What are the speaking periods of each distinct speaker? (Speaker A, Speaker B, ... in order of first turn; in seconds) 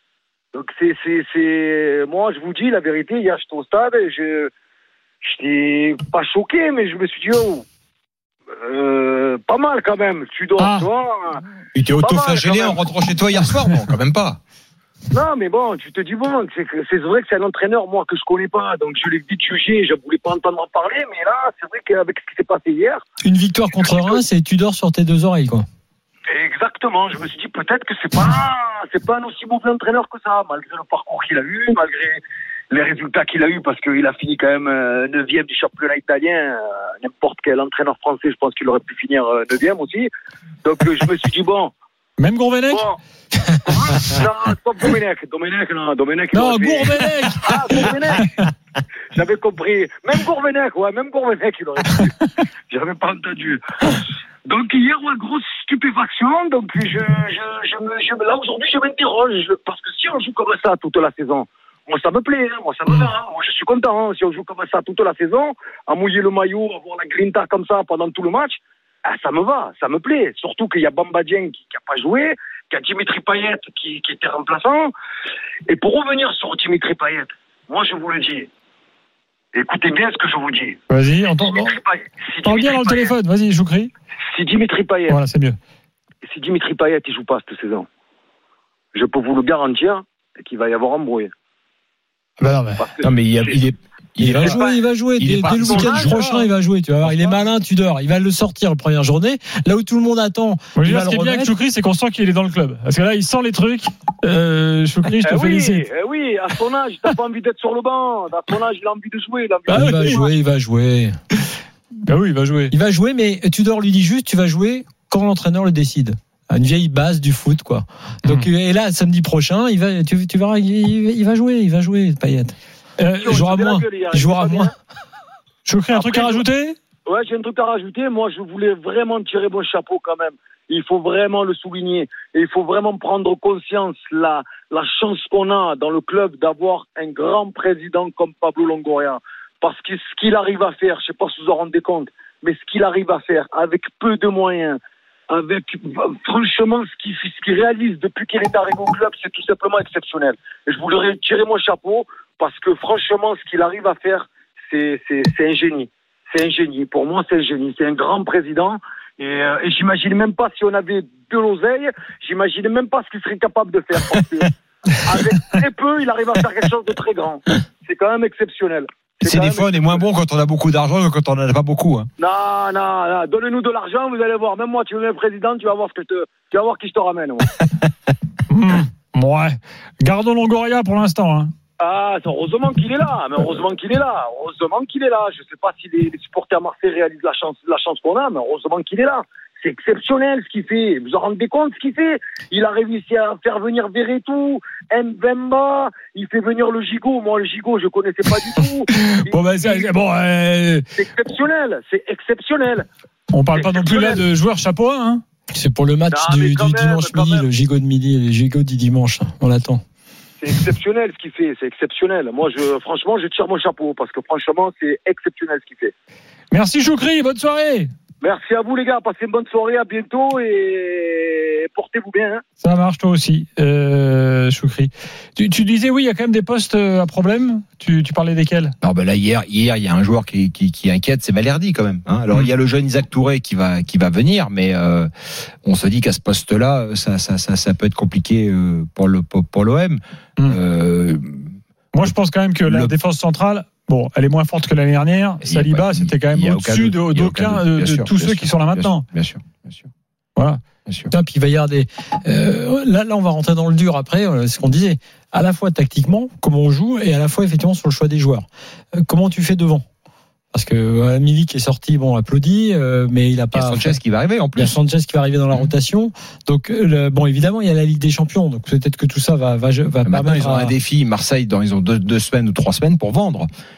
Speaker A: 0.5-4.5, 5.2-7.7, 8.6-11.4, 12.0-12.8, 15.1-23.0, 23.8-24.2, 26.3-40.1, 40.6-41.7, 42.7-48.5, 49.1-52.2, 52.7-74.9, 75.7-78.5, 79.5-80.8, 81.3-83.1, 84.3-85.2, 86.2-87.9, 88.9-91.3, 92.8-93.6, 94.4-94.8, 95.5-96.1, 105.2-110.3, 123.2-124.7, 125.9-126.4, 127.1-170.1, 172.2-177.6, 181.8-200.0, 200.9-202.9, 203.5-204.2, 206.1-207.4, 210.4-215.9, 218.2-222.4
Speaker B: 10.6-10.9, 42.2-42.9, 46.3-48.4, 80.9-81.8, 82.4-83.9, 85.1-85.6, 92.4-92.9, 100.8-105.8, 109.7-110.2, 112.1-112.7, 123.0-123.8, 125.7-126.8, 178.5-181.5, 198.9-200.9, 203.3-205.2, 216.5-217.9, 222.6-228.8, 241.9-249.0, 250.4-250.6
Speaker C: 11.8-14.4, 93.0-94.6, 95.2-96.3, 97.0-97.4, 169.2-172.1, 228.8-235.1, 235.6-241.5, 245.4-249.9, 250.9-251.1, 263.5-264.8, 270.0-273.5
Speaker D: 23.2-25.7, 94.2-101.5, 109.7-111.2, 112.7-122.5, 123.6-124.7, 205.5-209.8, 251.1-259.9, 260.5-264.0, 264.6-270.7